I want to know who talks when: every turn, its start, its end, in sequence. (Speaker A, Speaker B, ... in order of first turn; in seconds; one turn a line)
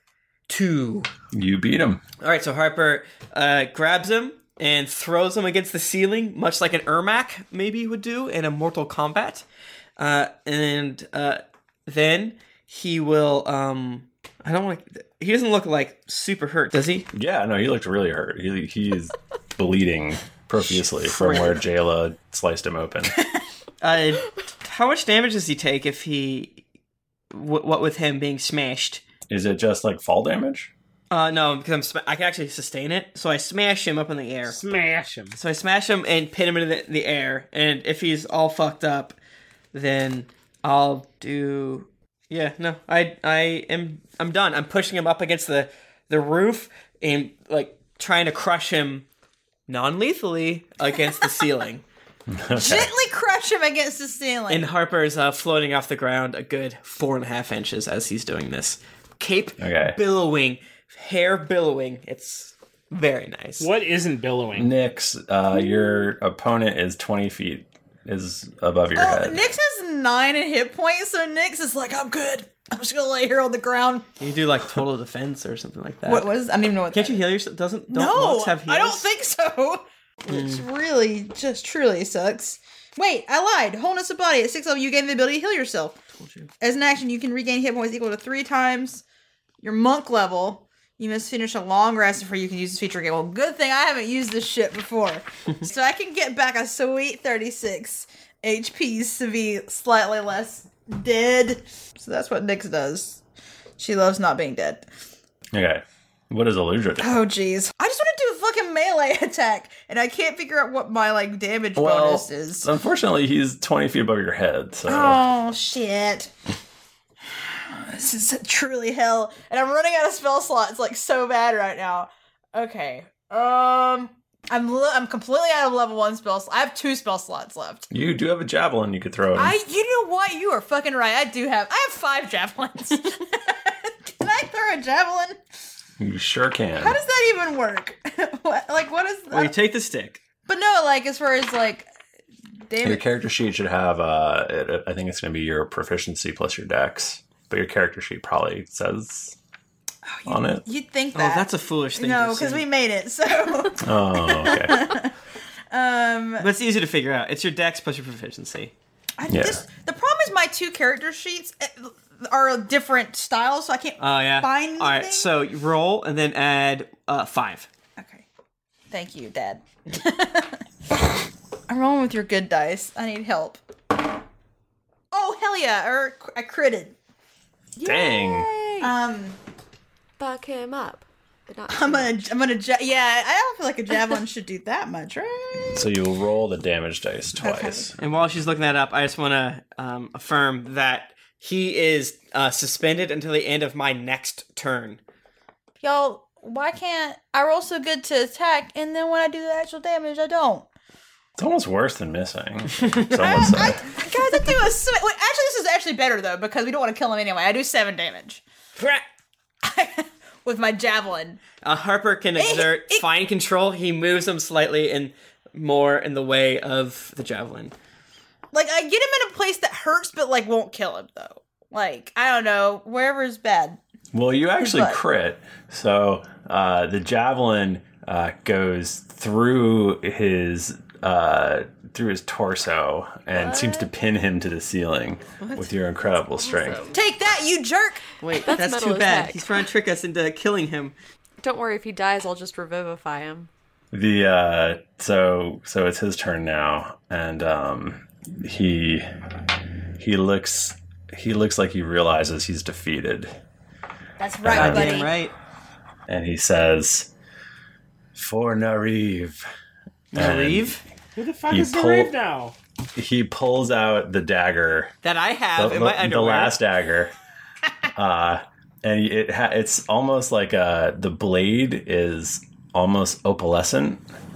Speaker A: 0.5-1.1
Speaker B: 1.3-2.0
Speaker A: 2.2-9.4
Speaker A: 10.0-17.1
Speaker B: 17.1-23.1
Speaker A: 20.9-21.6
Speaker A: 23.8-26.6
Speaker A: 27.3-29.0
Speaker B: 29.3-30.7
Speaker A: 31.1-34.6
Speaker C: 34.5-35.4
Speaker A: 35.4-39.2
Speaker A: 39.7-49.0
Speaker A: 49.7-51.8
Speaker B: 52.3-52.9
Speaker D: 52.5-54.7
Speaker A: 54.5-63.7
Speaker B: 59.6-60.0
Speaker C: 63.6-64.7
Speaker B: 64.5-69.4
Speaker D: 68.9-74.1
Speaker A: 74.2-76.3
Speaker D: 76.0-77.2
Speaker A: 76.9-79.0
Speaker D: 77.9-86.0
Speaker A: 80.3-80.6
Speaker A: 86.2-86.5
Speaker D: 86.6-89.0
Speaker D: 89.6-103.2
Speaker D: 103.8-104.9
Speaker B: 105.5-107.2
Speaker D: 107.0-112.7
Speaker B: 111.8-115.2
Speaker D: 114.9-116.3
Speaker D: 117.5-127.9
Speaker B: 127.9-129.6
Speaker D: 129.3-135.4
Speaker B: 136.0-137.0
Speaker D: 136.8-139.5
Speaker A: 139.3-140.2
Speaker D: 140.4-141.9
Speaker D: 142.7-143.1
Speaker B: 142.8-149.3
Speaker D: 150.1-155.1
Speaker B: 150.3-150.6
Speaker A: 151.1-152.6
Speaker B: 153.8-154.9
Speaker D: 155.7-156.5
Speaker A: 156.4-158.7
Speaker D: 159.2-165.3
Speaker B: 159.3-159.6
Speaker A: 164.0-167.7
Speaker D: 168.0-168.2
Speaker D: 168.9-170.6
Speaker D: 171.7-173.6
Speaker D: 175.1-176.9
Speaker B: 177.8-178.5
Speaker E: 177.8-178.9
Speaker D: 178.8-179.4
Speaker E: 180.2-182.3
Speaker D: 181.7-185.9
Speaker B: 185.7-187.9
Speaker D: 187.4-187.8
Speaker A: 188.0-195.0
Speaker D: 195.8-200.7
Speaker B: 201.4-203.9
Speaker D: 203.1-208.4
Speaker D: 209.6-211.4
Speaker A: 211.6-217.7
Speaker D: 212.4-213.1
Speaker D: 218.5-223.8
Speaker B: 224.1-236.9
Speaker D: 224.6-225.0
Speaker D: 233.4-233.8
Speaker A: 235.4-235.7
Speaker E: 236.3-236.9
Speaker D: 236.9-238.0
Speaker A: 238.2-240.9
Speaker E: 238.4-239.4
Speaker E: 241.4-243.5
Speaker B: 243.9-249.0
Speaker B: 250.0-253.3
Speaker D: 254.2-255.1
Speaker B: 254.4-255.1
Speaker A: 254.5-255.3
Speaker B: 256.1-257.1
Speaker B: 258.1-259.4
Speaker A: 260.1-260.8
Speaker B: 260.1-260.8
Speaker C: 261.1-262.5
Speaker B: 261.5-262.1
Speaker B: 262.9-264.9
Speaker A: 265.0-266.6
Speaker B: 265.6-267.1
Speaker B: 267.9-274.0